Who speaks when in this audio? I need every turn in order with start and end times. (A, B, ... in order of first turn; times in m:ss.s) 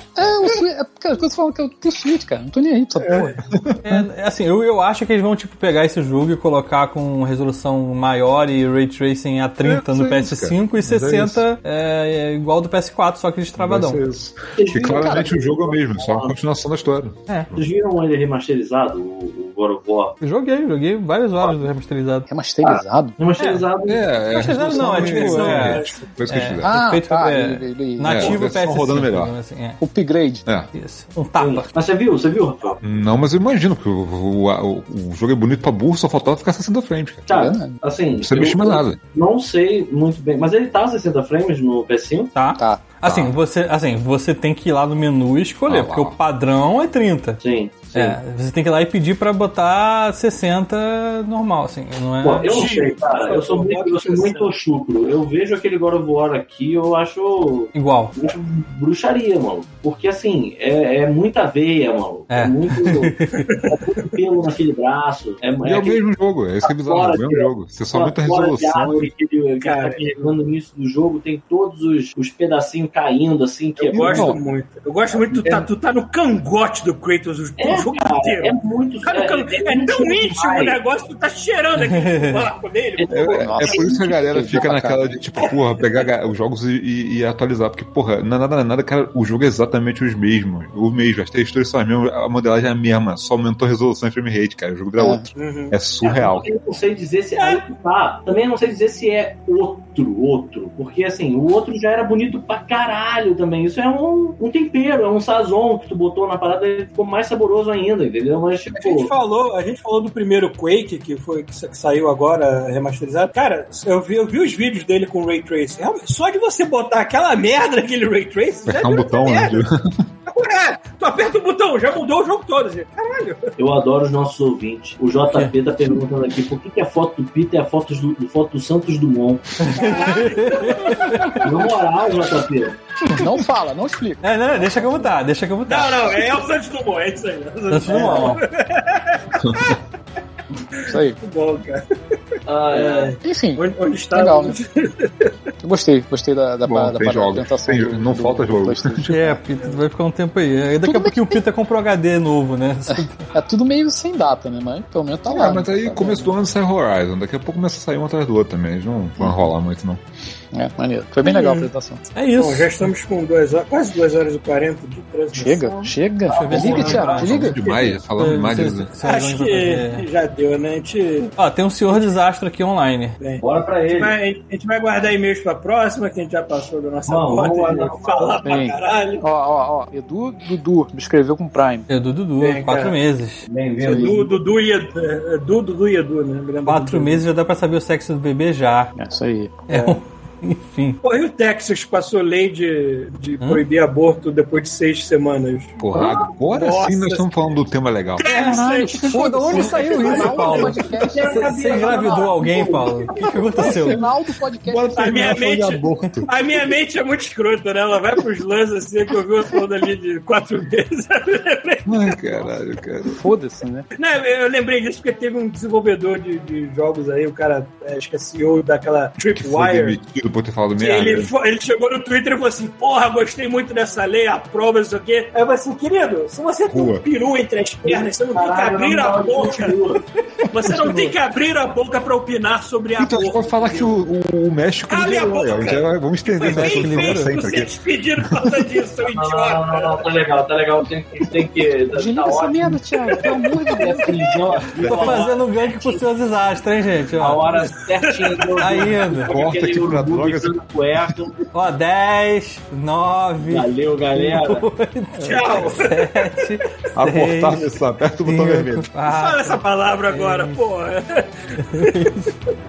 0:00.2-0:03.3 A
0:03.0-0:03.4 B
0:03.5-0:04.0 C
0:03.8-0:14.0 D
0:09.6-0:11.4 C
0:13.6-0:17.6 C
0:14.6-0:16.4 E
0:14.8-0:15.3 A
0:17.5-0:20.2 E
0:20.2-0:22.3 D
0:22.3-0:23.1 A
0:22.6-0:24.6 E
0:23.4-0:23.6 D
0:23.8-0:26.7 C
0:24.3-0:29.8 D
0:25.0-0:26.1 B
0:26.6-0:28.4 A
0:28.0-0:29.3 C
0:29.8-0:30.4 A
0:30.7-0:31.7 D
0:31.4-0:32.8 E
0:32.8-0:37.3 C
0:37.3-0:42.3 E
0:37.3-0:37.8 A
0:38.2-0:39.0 C
0:42.3-0:47.4 D
0:42.6-0:42.9 A
0:43.0-0:43.3 C
0:45.7-0:46.2 C
0:47.4-0:48.2 E
0:47.9-0:52.7 D
0:52.2-1:06.0 E
0:52.4-0:54.5 B
0:57.7-0:58.1 D
1:02.3-1:03.4 D
1:03.5-1:03.8 B
1:05.6-1:09.1 C
1:06.6-1:14.4 E
1:09.6-1:10.0 B
1:13.8-1:23.8 B
1:14.0-1:14.4 A
1:15.3-1:15.6 E
1:15.3-1:15.6 A
1:17.6-1:20.8 E
1:21.8-1:22.4 D
1:23.0-1:23.3 E
1:23.1-1:36.5 C
1:23.3-1:25.1 A
1:35.0-1:35.3 A
1:35.3-1:35.8 B
1:36.0-1:49.1 E
1:37.4-1:37.6 B
1:48.8-1:59.6 B
1:58.6-1:59.8 C
2:00.3-2:03.4 B
2:03.6-2:10.1 E
2:05.3-2:05.5 D
2:09.6-2:11.4 D
2:09.7-2:11.7 B
2:11.4-2:12.8 E
2:13.1-2:15.2 A
2:14.2-2:16.1 D
2:15.7-2:19.8 B
2:17.7-2:18.4 D
2:17.9-2:18.3 A
2:19.4-2:19.8 C
2:20.9-2:21.2 A
2:21.2-2:21.8 B
2:22.4-2:23.2 E
2:22.7-2:25.3 B
2:23.2-2:24.6 A
2:25.6-2:29.4 A
2:26.6-2:29.3 C
2:29.1-2:33.3 D
2:30.8-2:31.4 A
2:32.9-2:36.3 A
2:35.2-2:40.0 C
2:40.5-2:42.0 A
2:41.2-2:41.7 B
2:42.1-2:42.7 D
2:42.4-2:45.7 B
2:45.3-2:47.6 A
2:45.6-2:47.2 E
2:46.3-2:47.5 D
2:46.4-2:48.0 B
2:47.0-2:48.9 C
2:48.2-2:50.1 D
2:49.0-2:51.3 B
2:51.4-2:53.2 D
2:53.2-2:59.2 B
2:53.4-2:54.2 E
2:57.1-2:58.4 E
2:58.4-3:01.8 A
3:01.9-3:03.5 D
3:02.4-3:03.0 B
3:03.4-3:04.3 E
3:03.8-3:04.3 A
3:03.8-3:07.2 B
3:06.6-3:08.9 D
3:09.0-3:09.8 A
3:09.7-3:11.0 D
3:11.0-3:17.3 B
3:13.4-3:13.7 D
3:15.8-3:18.5 C
3:18.2-3:23.8 B
3:18.3-3:24.0 D
3:18.3-3:22.1 A
3:23.5-3:25.3 A
3:23.7-3:24.0 C
3:24.6-3:26.7 C
3:25.0-3:32.4 B
3:31.8-3:33.2 C
3:33.1-3:33.8 A
3:33.9-3:40.0 B
3:39.4-3:41.3 C
3:40.8-3:49.7 B
3:46.7-3:47.0 C
3:47.8-3:50.0 E
3:50.5-3:54.0 B
3:50.7-3:51.1 D
3:53.0-3:58.7 C
3:54.9-4:00.0 B
3:56.4-3:57.4 D
3:59.0-4:06.0 E
4:01.9-4:04.3 A
4:03.1-4:04.1 B
4:04.8-4:05.2 C
4:04.9-4:07.4 D
4:07.2-4:11.4 E
4:08.3-4:08.8 B
4:08.6-4:09.3 D
4:09.2-4:11.2 C
4:11.5-4:17.7 D
4:13.4-4:14.7 E
4:15.2-4:16.1 B
4:16.9-4:18.9 C
4:18.2-4:20.6 D
4:19.1-4:22.1 B
4:21.6-4:22.3 D